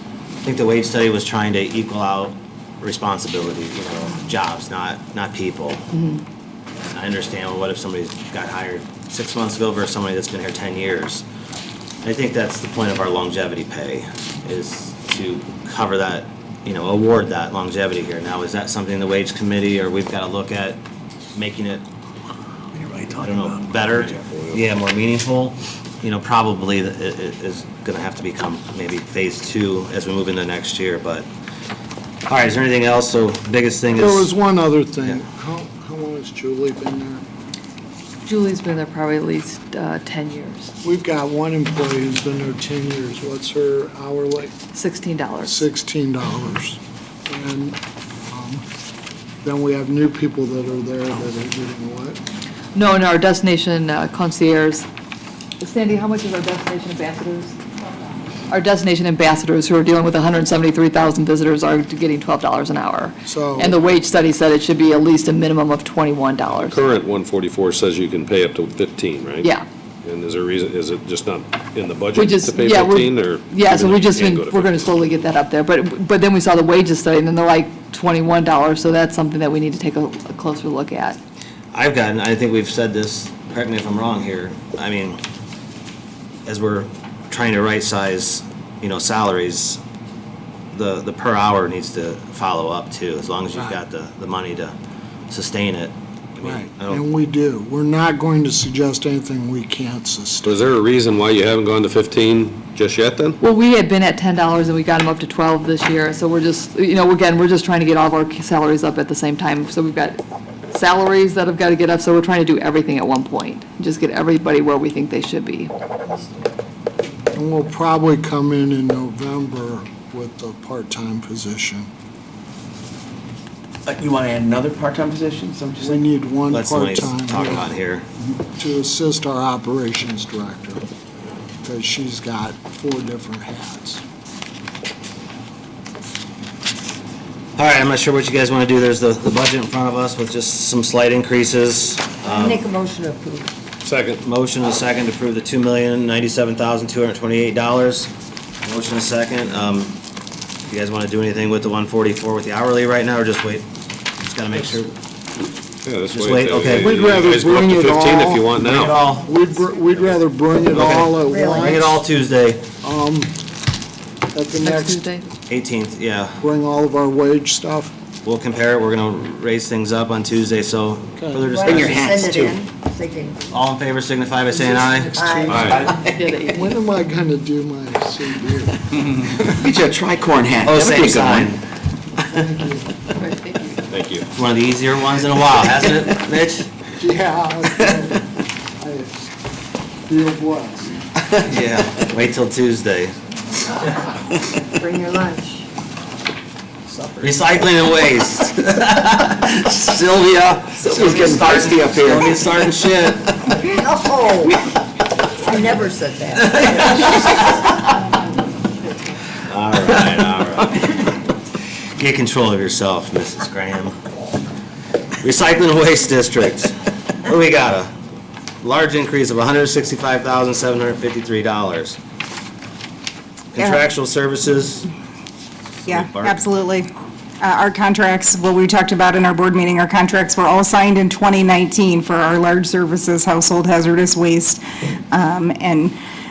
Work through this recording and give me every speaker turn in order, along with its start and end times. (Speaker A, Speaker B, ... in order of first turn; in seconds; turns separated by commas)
Speaker A: 0.4-5.8, Speaker B: 5.9-6.2, Speaker A: 6.9-11.2, Speaker A: 12.0-20.8, Speaker A: 21.3-21.8, Speaker C: 22.8-23.2, Speaker A: 23.2-31.3, Speaker D: 23.9-24.6, Speaker A: 32.3-34.3, Speaker E: 33.9-37.2, Speaker B: 38.2-40.7, Speaker E: 40.8-44.5, Speaker B: 44.7-45.7, Speaker E: 45.4-48.6, Speaker E: 49.4-52.2, Speaker B: 52.7-54.9, Speaker B: 55.6-57.5, Speaker B: 58.5-66.9, Speaker E: 63.2-63.8, Speaker D: 66.5-69.5, Speaker D: 70.0-75.2, Speaker B: 72.2-81.2, Speaker A: 81.7-85.2, Speaker A: 86.5-89.8, Speaker A: 90.7-94.7, Speaker A: 95.3-97.0, Speaker E: 96.4-100.7, Speaker D: 100.4-103.4, Speaker B: 103.4-110.2, Speaker B: 110.7-116.2, Speaker E: 117.3-121.9, Speaker E: 125.8-127.7, Speaker A: 126.5-128.0, Speaker E: 128.4-130.8, Speaker E: 131.6-134.0, Speaker A: 137.6-142.6, Speaker F: 142.2-143.5, Speaker D: 143.8-144.2, Speaker A: 144.2-148.1, Speaker A: 148.6-149.9, Speaker A: 150.7-153.7, Speaker A: 154.2-154.9, Speaker D: 155.8-159.0, Speaker A: 156.1-156.9, Speaker E: 156.7-158.5, Speaker A: 158.6-159.3, Speaker E: 159.2-161.9, Speaker A: 160.7-162.6, Speaker F: 161.2-162.0, Speaker E: 162.8-163.3, Speaker E: 164.3-165.1, Speaker B: 164.6-165.2, Speaker A: 165.5-166.4, Speaker E: 166.4-167.9, Speaker A: 168.2-172.5, Speaker E: 171.2-171.5, Speaker F: 171.4-173.5, Speaker A: 173.5-175.2, Speaker E: 174.5-178.8, Speaker F: 174.9-176.0, Speaker D: 175.5-175.9, Speaker B: 175.9-176.8, Speaker C: 179.6-181.5, Speaker A: 180.6-181.6, Speaker E: 182.2-182.9, Speaker B: 183.2-183.8, Speaker D: 183.9-184.3, Speaker A: 184.3-186.7, Speaker E: 187.0-188.2, Speaker E: 188.8-189.3, Speaker E: 190.1-190.9, Speaker A: 191.4-193.1, Speaker F: 194.7-195.7, Speaker F: 196.9-197.3, Speaker A: 197.2-203.8, Speaker C: 201.0-202.2, Speaker F: 203.7-204.6, Speaker F: 205.3-207.5, Speaker A: 206.3-207.7, Speaker A: 209.4-211.1, Speaker A: 211.9-213.9, Speaker A: 215.2-217.9, Speaker A: 218.6-222.0, Speaker A: 223.5-224.9, Speaker A: 225.8-226.4, Speaker G: 225.9-226.9, Speaker G: 227.4-235.9